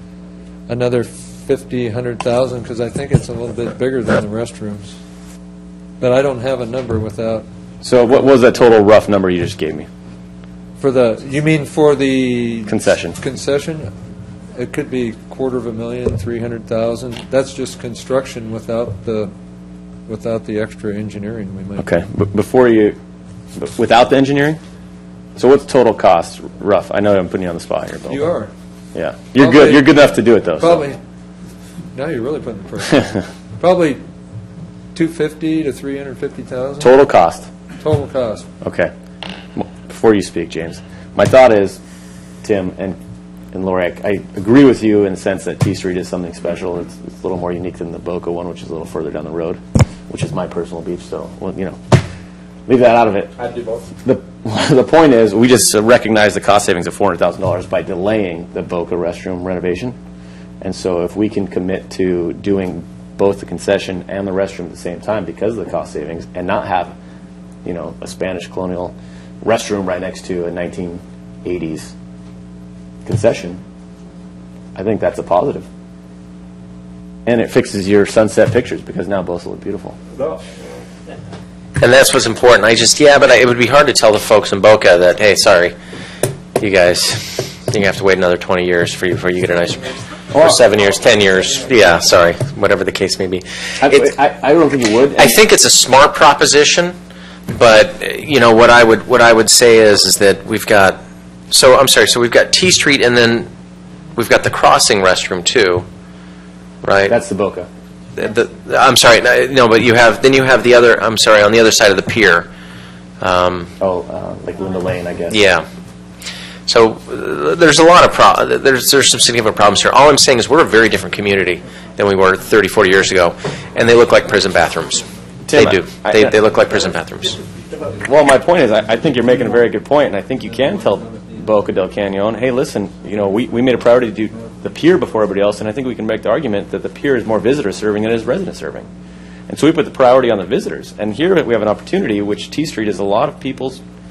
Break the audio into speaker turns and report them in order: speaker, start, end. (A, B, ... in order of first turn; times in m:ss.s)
0:00.7-0:04.9 A
0:06.0-0:07.4 A
0:07.8-0:09.9 B
0:10.8-0:13.9 A
0:12.7-0:13.2 B
0:14.5-0:19.3 A
0:20.1-0:21.8 A
0:21.8-0:23.0 B
0:23.5-0:24.6 B
0:25.4-0:28.2 B
0:28.1-0:28.5 A
0:28.9-0:30.8 B
0:29.4-0:29.8 A
0:30.6-0:31.0 A
0:31.9-0:34.0 A
0:34.9-0:36.9 A
0:36.8-0:37.5 B
0:37.8-0:38.5 A
0:38.6-0:38.9 B
0:39.5-0:41.8 B
0:42.4-0:43.0 B
0:43.5-0:52.0 B
0:52.7-0:53.3 B
0:54.0-1:00.0 B
1:00.6-1:06.9 B
1:07.6-1:11.9 B
1:13.0-1:13.6 B
1:14.7-1:15.6 B
1:17.2-1:20.0 B
1:21.8-1:25.7 C
1:26.6-1:34.1 C
1:30.3-1:30.6 B
1:33.8-1:35.4 B
1:35.2-1:37.0 C
1:37.5-1:41.0 C
1:41.5-1:43.5 C
1:44.1-1:45.9 C
1:46.8-1:47.2 C
1:47.1-1:47.7 B
1:48.1-1:52.5 C
1:53.2-1:53.7 C
1:53.8-1:55.4 B
1:55.3-1:55.6 C
1:56.7-2:07.4 C
2:05.4-2:06.4 B
2:07.4-2:08.1 A
2:08.0-2:18.8 B
2:10.5-2:11.5 A
2:19.5-2:23.8 B